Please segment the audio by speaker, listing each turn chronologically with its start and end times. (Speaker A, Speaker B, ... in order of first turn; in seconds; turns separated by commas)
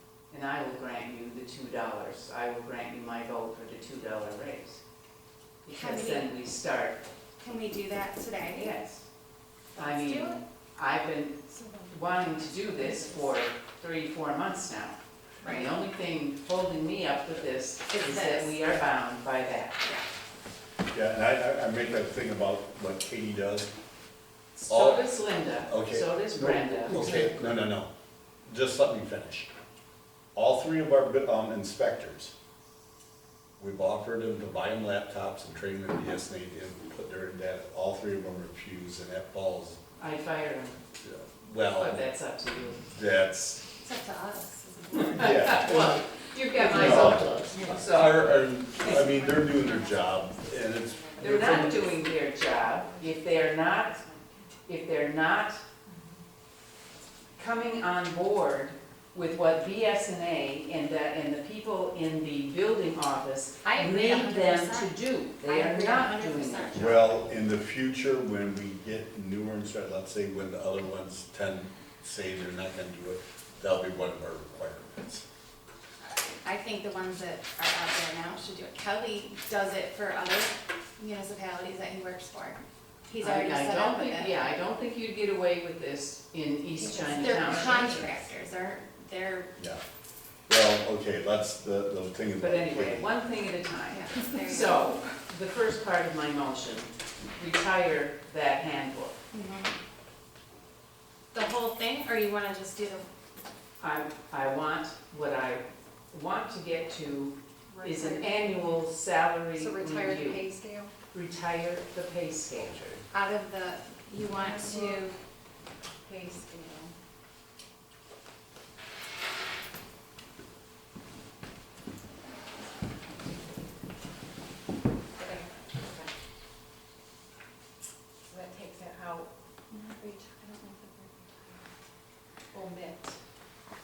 Speaker A: 0.3-4.8, Speaker A: 5.6-7.0, Speaker B: 5.7-6.3, Speaker B: 7.4-8.8, Speaker A: 8.4-9.0, Speaker B: 9.8-10.4, Speaker A: 9.8-19.8, Speaker C: 11.5-13.3, Speaker B: 15.4-15.7, Speaker B: 17.9-18.6, Speaker D: 20.9-23.7, Speaker A: 24.6-27.5, Speaker D: 24.7-25.1, Speaker D: 25.6-27.9, Speaker D: 28.4-29.5, Speaker D: 30.3-32.3, Speaker D: 33.6-39.8, Speaker A: 40.0-40.8, Speaker D: 41.0-42.0, Speaker A: 41.7-42.9, Speaker D: 42.9-43.6, Speaker B: 43.8-45.8, Speaker A: 45.1-48.3, Speaker D: 45.2-45.9, Speaker C: 46.6-47.8, Speaker D: 46.6-51.8, Speaker C: 48.8-54.5, Speaker A: 51.2-54.0, Speaker B: 51.4-51.9, Speaker A: 54.7-55.6, Speaker C: 56.9-57.4, Speaker A: 57.4-66.7, Speaker B: 63.6-67.2, Speaker D: 66.7-75.2, Speaker B: 76.0-84.4, Speaker A: 83.2-88.0, Speaker C: 86.7-88.3, Speaker B: 87.1-89.5, Speaker D: 89.5-89.8, Speaker D: 90.5-93.1, Speaker A: 92.4-99.2, Speaker B: 93.9-94.8, Speaker B: 99.3-99.8, Speaker B: 101.3-103.0, Speaker A: 103.8-110.4, Speaker C: 107.7-108.6, Speaker C: 109.5-110.9, Speaker A: 111.1-113.0, Speaker B: 113.1-115.2, Speaker C: 114.3-115.1, Speaker C: 115.8-116.9, Speaker C: 125.2-126.1, Speaker C: 128.3-129.3, Speaker B: 129.7-131.4, Speaker C: 132.5-133.2